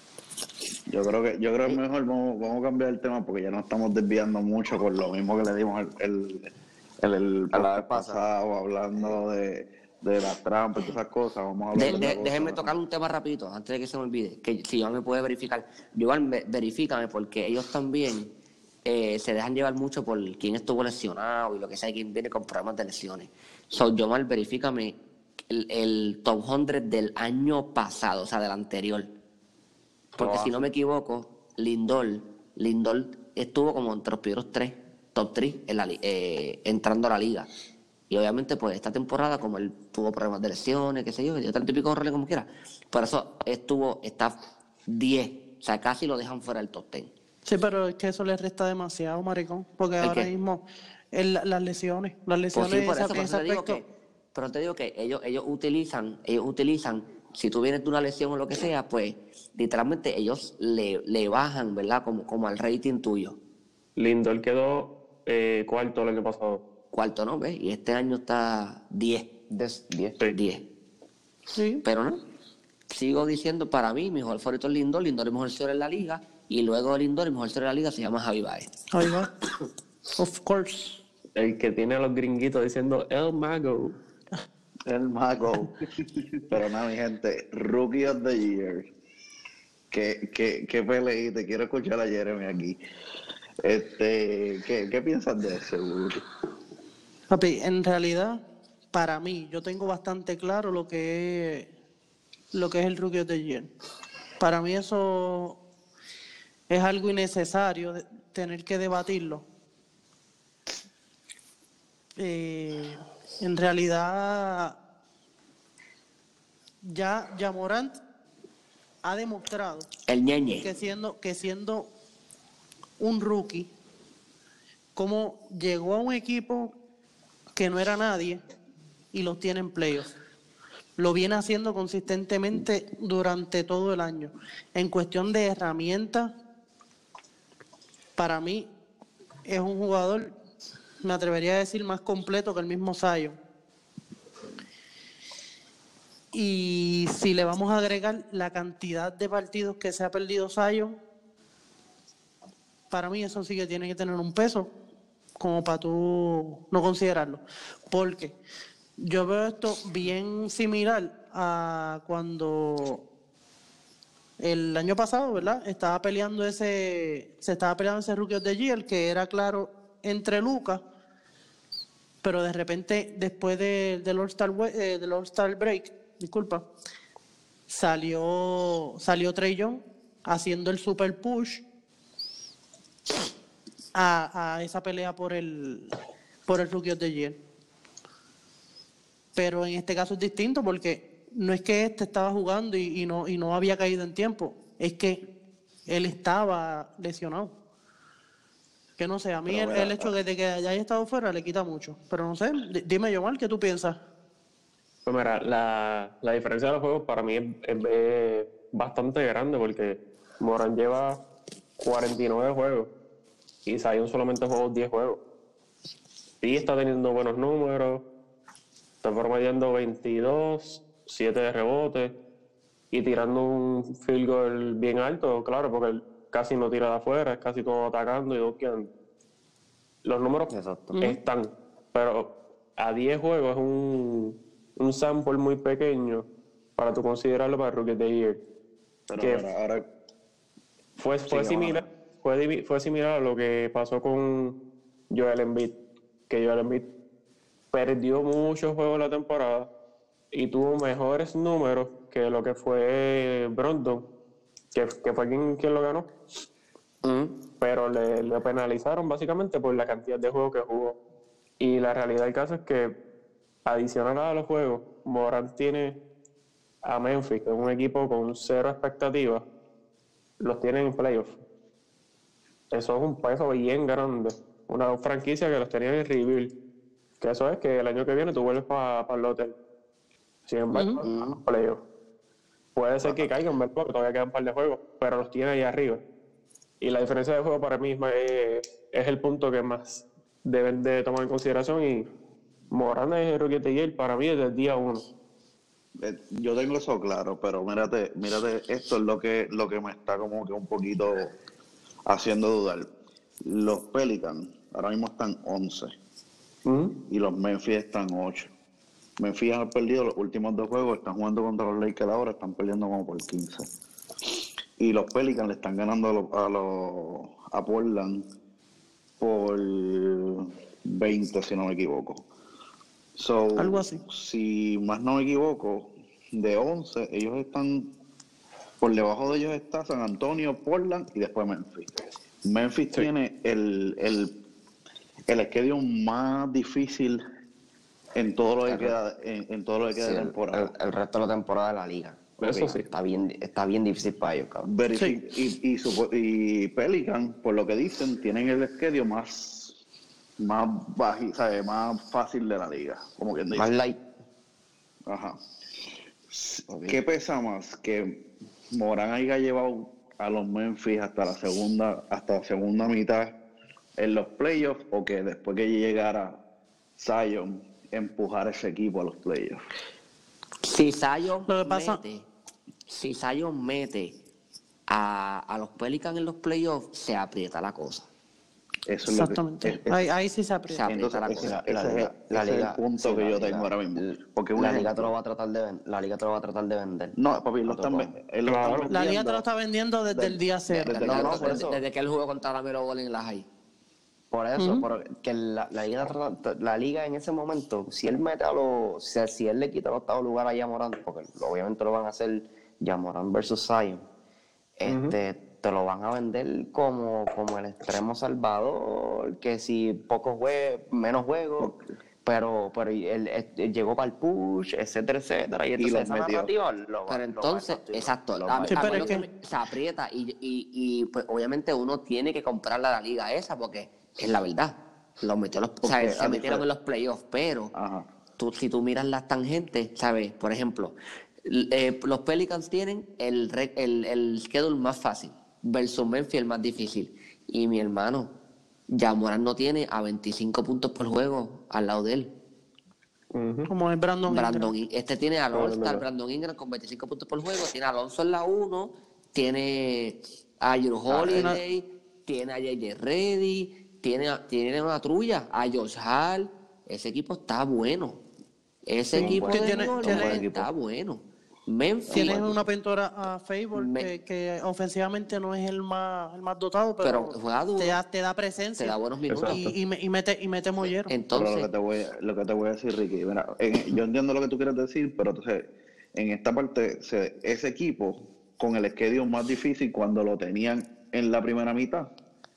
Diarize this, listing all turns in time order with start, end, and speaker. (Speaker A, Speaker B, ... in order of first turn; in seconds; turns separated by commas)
Speaker A: 0.9-12.7, Speaker B: 7.5-8.2, Speaker C: 11.7-18.3, Speaker C: 18.9-25.0, Speaker C: 25.5-29.1, Speaker C: 30.2-37.5, Speaker D: 30.2-30.5, Speaker C: 38.1-44.4, Speaker C: 44.9-47.1, Speaker E: 47.5-53.8, Speaker C: 50.0-50.3, Speaker C: 52.5-63.4, Speaker D: 64.0-66.6, Speaker C: 66.9-69.3, Speaker B: 69.5-70.2, Speaker C: 70.3-70.7, Speaker E: 71.5-71.8, Speaker C: 71.8-72.2, Speaker C: 72.9-78.7, Speaker E: 78.9-79.3, Speaker E: 80.2-81.0, Speaker D: 81.3-84.0, Speaker A: 84.9-85.7, Speaker A: 86.5-88.8, Speaker A: 89.9-92.8, Speaker A: 93.6-96.2, Speaker E: 97.3-98.4, Speaker E: 98.9-101.7, Speaker E: 102.5-103.7, Speaker E: 104.4-105.6, Speaker E: 106.7-109.4, Speaker E: 112.2-114.8, Speaker E: 116.8-118.0, Speaker E: 119.0-119.9, Speaker C: 120.1-120.7, Speaker E: 120.6-121.9, Speaker E: 123.0-123.7, Speaker E: 125.0-126.7, Speaker E: 127.5-128.4, Speaker E: 129.1-130.1, Speaker E: 131.0-136.3, Speaker E: 138.2-138.7, Speaker E: 139.4-140.3, Speaker E: 141.0-143.4, Speaker E: 146.3-151.0, Speaker E: 152.9-154.7, Speaker E: 155.4-158.4, Speaker E: 159.0-163.0, Speaker E: 164.4-170.8, Speaker E: 172.2-176.7, Speaker E: 177.7-181.6, Speaker E: 183.9-185.9, Speaker E: 186.4-187.4, Speaker E: 189.3-195.3, Speaker E: 195.9-197.5, Speaker E: 199.0-204.0, Speaker A: 199.5-200.1, Speaker D: 205.1-211.2, Speaker D: 211.8-212.9, Speaker D: 213.7-215.2, Speaker D: 216.4-218.0, Speaker D: 219.0-222.1, Speaker D: 222.9-228.9, Speaker D: 230.0-236.2, Speaker B: 230.5-231.0, Speaker D: 236.8-238.4, Speaker A: 239.1-239.9, Speaker D: 239.2-239.5, Speaker D: 241.0-244.6, Speaker A: 241.2-241.9, Speaker D: 245.1-245.8, Speaker D: 246.3-246.9, Speaker D: 247.7-249.7, Speaker D: 250.3-254.0, Speaker D: 254.7-256.1, Speaker B: 257.0-257.4, Speaker D: 257.6-261.0, Speaker D: 261.6-262.9, Speaker D: 263.6-266.0, Speaker D: 266.8-269.4, Speaker D: 270.4-271.4, Speaker D: 272.7-276.5, Speaker D: 277.2-279.5, Speaker D: 280.5-281.8, Speaker E: 280.7-281.0, Speaker B: 281.0-281.4, Speaker D: 282.8-286.0, Speaker D: 286.8-292.1, Speaker D: 292.7-295.0, Speaker A: 296.0-301.4, Speaker A: 302.1-302.9, Speaker A: 303.5-305.9, Speaker D: 306.6-307.0, Speaker A: 307.1-308.5, Speaker A: 309.2-313.7, Speaker A: 314.8-318.2, Speaker A: 319.2-322.2, Speaker A: 323.1-327.9, Speaker E: 323.6-324.0, Speaker A: 328.8-331.9, Speaker A: 332.4-334.3, Speaker A: 335.3-337.2, Speaker A: 338.1-340.7, Speaker B: 338.6-338.9, Speaker B: 340.0-342.3, Speaker D: 342.4-342.9, Speaker A: 342.4-342.8, Speaker B: 342.9-344.7, Speaker A: 344.6-349.8, Speaker A: 350.4-353.7, Speaker B: 353.5-354.0, Speaker A: 355.1-355.4, Speaker A: 356.3-358.2, Speaker B: 356.7-357.0, Speaker A: 358.7-363.4, Speaker A: 364.0-366.4, Speaker A: 367.0-369.6, Speaker C: 370.6-372.3, Speaker E: 371.5-372.0, Speaker C: 372.9-374.1, Speaker C: 374.9-378.1, Speaker A: 378.9-380.1, Speaker E: 379.1-380.8, Speaker C: 380.7-381.6, Speaker A: 380.9-385.1, Speaker B: 381.4-387.1, Speaker A: 387.1-389.4, Speaker B: 387.6-388.1, Speaker D: 388.4-388.9, Speaker E: 388.9-390.9, Speaker A: 390.1-391.6, Speaker C: 390.9-393.4, Speaker B: 391.0-391.8, Speaker B: 394.3-404.0, Speaker E: 394.6-394.8, Speaker B: 404.8-411.7, Speaker D: 404.9-405.1, Speaker A: 411.6-411.8, Speaker B: 412.2-418.1, Speaker A: 415.8-416.5, Speaker C: 417.1-427.7, Speaker A: 418.3-419.1, Speaker E: 418.7-419.2, Speaker A: 425.8-426.6, Speaker A: 427.7-428.1, Speaker C: 428.4-438.3, Speaker C: 438.9-442.3, Speaker D: 443.3-443.7, Speaker E: 443.7-444.7, Speaker C: 444.3-458.2, Speaker A: 445.5-446.0, Speaker B: 451.1-451.6, Speaker E: 451.3-451.6, Speaker C: 458.9-462.5, Speaker E: 459.1-460.4, Speaker B: 459.1-460.7, Speaker A: 462.1-462.4, Speaker E: 462.1-471.1, Speaker C: 463.7-464.1, Speaker C: 467.0-468.0, Speaker C: 468.8-469.7, Speaker D: 469.3-469.7, Speaker C: 471.1-471.7, Speaker A: 471.3-482.1